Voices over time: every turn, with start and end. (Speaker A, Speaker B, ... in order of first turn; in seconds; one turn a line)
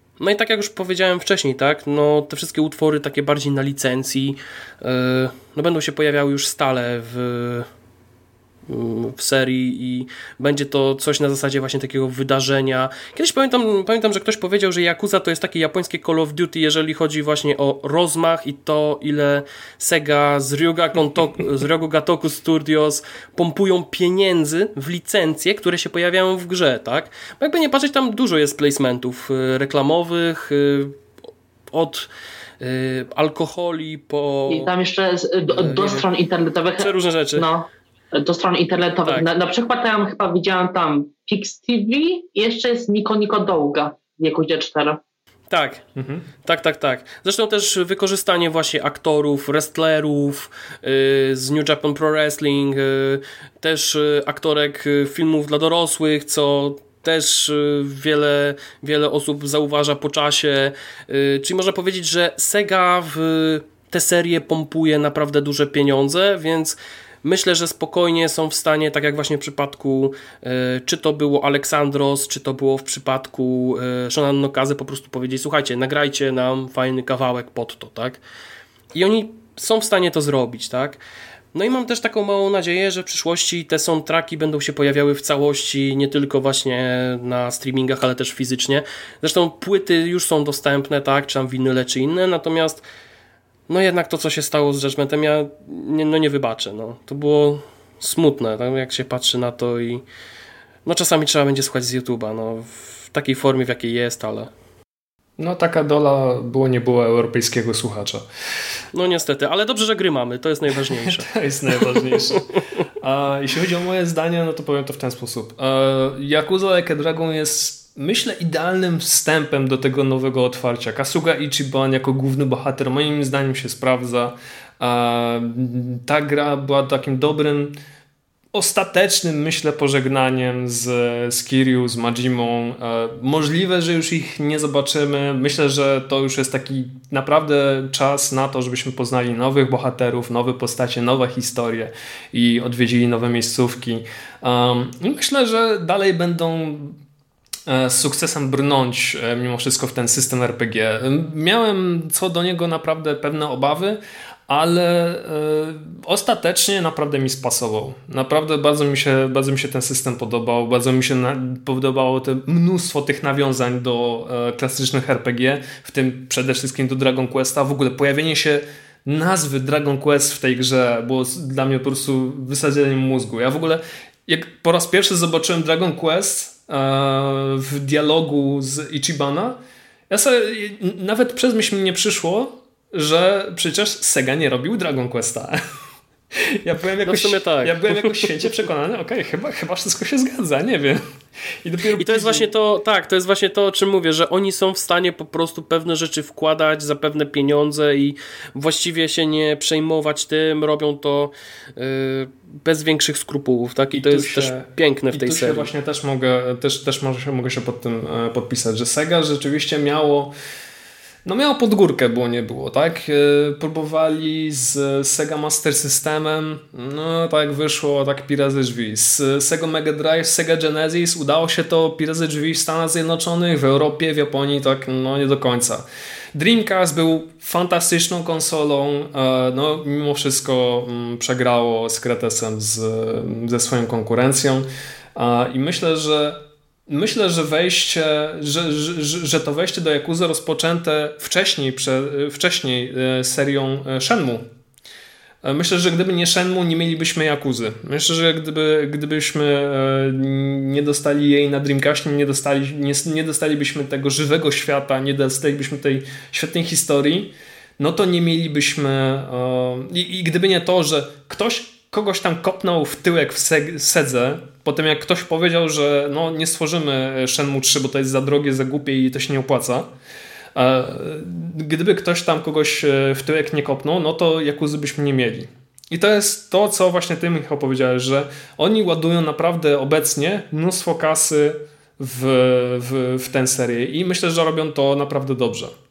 Speaker A: 0.2-7.7
Speaker A: 8.7-31.0
Speaker A: 31.7-32.1
Speaker A: 32.6-34.7
Speaker B: 34.5-45.0
Speaker A: 35.5-36.0
Speaker A: 36.8-37.5
Speaker A: 45.5-45.8
Speaker C: 46.0-46.3
Speaker A: 46.4-78.2
Speaker A: 78.9-81.0
Speaker A: 81.5-92.8
Speaker A: 93.7-100.0
Speaker A: 100.8-104.5
Speaker C: 105.4-108.2
Speaker A: 108.9-111.3
Speaker C: 111.0-112.5
Speaker A: 111.9-112.4
Speaker C: 113.0-127.7
Speaker C: 128.5-147.0
Speaker C: 147.7-179.6
Speaker C: 180.1-185.6
Speaker C: 186.5-191.0
Speaker A: 187.0-188.3
Speaker C: 191.6-192.5
Speaker A: 192.0-205.7
Speaker C: 203.9-210.3
Speaker C: 211.2-244.4
Speaker C: 245.4-269.9
Speaker C: 270.5-285.7